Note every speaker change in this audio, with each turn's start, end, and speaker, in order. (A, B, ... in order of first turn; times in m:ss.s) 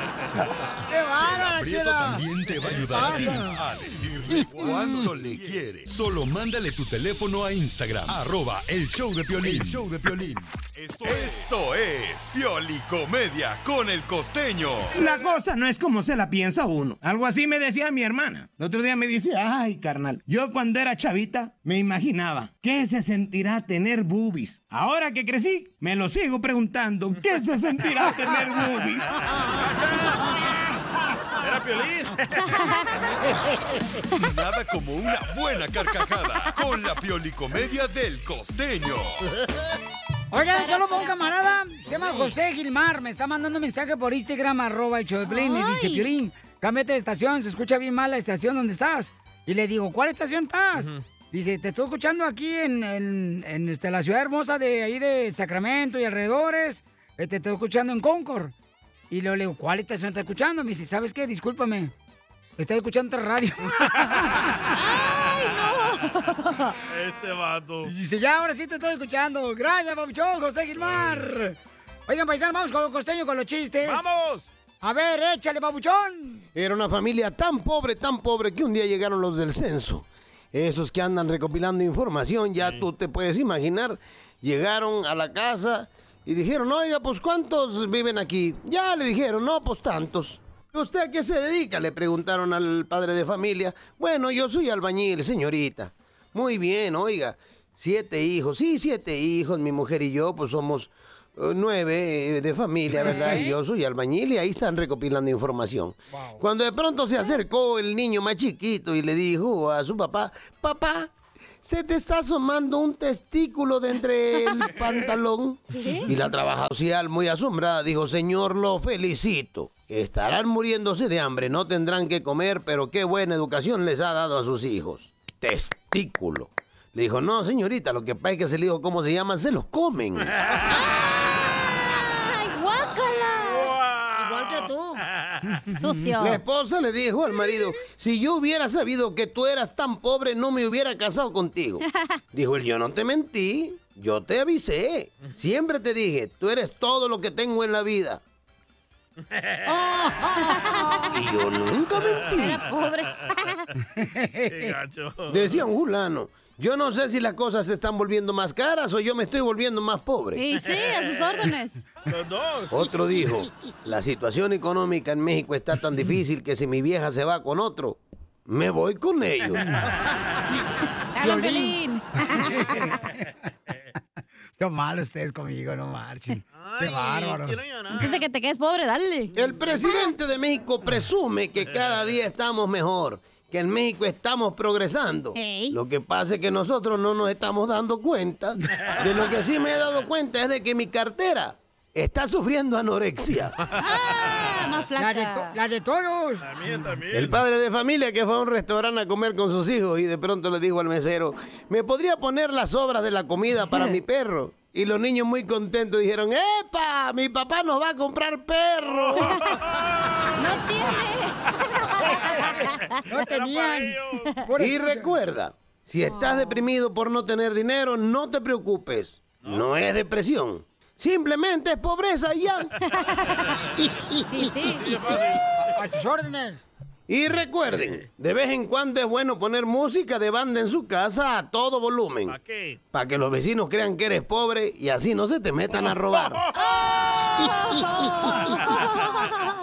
0:00.9-0:02.2 A
0:01.1-0:15.0 B
0:02.9-0:03.6 A
0:04.6-0:05.0 A
0:09.4-0:09.8 C
0:14.9-0:29.1 C
0:31.4-0:32.7 D
0:32.5-0:32.9 E
0:34.2-0:39.2 B
0:40.3-0:58.5 A
0:40.5-0:41.1 E
0:42.0-0:42.3 E
0:45.3-0:46.1 E
0:50.8-0:51.0 D
0:59.1-1:01.9 A
1:02.6-1:04.5 A
1:04.7-1:06.8 E
1:05.3-1:05.9 D
1:06.9-1:07.9 D
1:07.8-1:11.6 A
1:10.8-1:11.2 D
1:12.1-1:14.1 A
1:13.8-1:14.5 D
1:14.8-1:16.4 A
1:16.5-1:51.1 F
1:22.6-1:22.8 D
1:43.0-1:43.5 A
1:46.1-1:46.4 A
1:51.6-2:10.3 F
1:55.7-1:56.1 E
2:10.7-2:13.7 E
2:13.4-2:15.5 D
2:14.1-2:16.0 A
2:15.8-2:16.4 E
2:16.2-2:28.2 F
2:29.3-2:29.7 D
2:29.6-2:31.1 A
2:30.5-2:31.0 E
2:31.1-2:32.6 F
2:32.3-2:33.6 E
2:33.9-2:34.7 A
2:34.5-2:35.6 D
2:35.3-2:40.4 F
2:40.3-2:41.8 E
2:40.6-2:41.4 D
2:42.0-2:42.9 D
2:42.7-2:49.6 F
2:49.6-2:49.9 A
2:51.1-2:52.9 E
2:51.2-2:53.1 A
2:54.6-2:57.6 A
2:56.5-2:58.2 D
2:57.9-2:59.3 E
2:59.3-3:13.5 F
3:05.3-3:05.8 E
3:13.6-3:14.4 D
3:13.8-3:15.6 E
3:15.0-3:16.4 A
3:16.4-3:17.4 D
3:17.1-3:29.4 F
3:28.8-3:30.6 D
3:30.4-3:33.0 E
3:32.0-3:35.1 A
3:32.0-3:34.4 D
3:34.6-3:42.7 F
3:36.0-3:36.6 E
3:42.9-3:43.4 E
3:43.4-3:43.8 D
3:43.8-3:44.2 A
3:44.3-3:44.9 E
3:44.6-3:45.8 D
3:45.6-3:46.6 A
3:47.1-3:52.4 F
3:47.7-3:48.0 D
3:52.3-3:52.8 D
3:52.9-3:56.4 F
3:55.8-3:56.5 D
3:56.6-3:59.3 E
3:58.3-3:58.6 A
3:58.5-3:59.3 D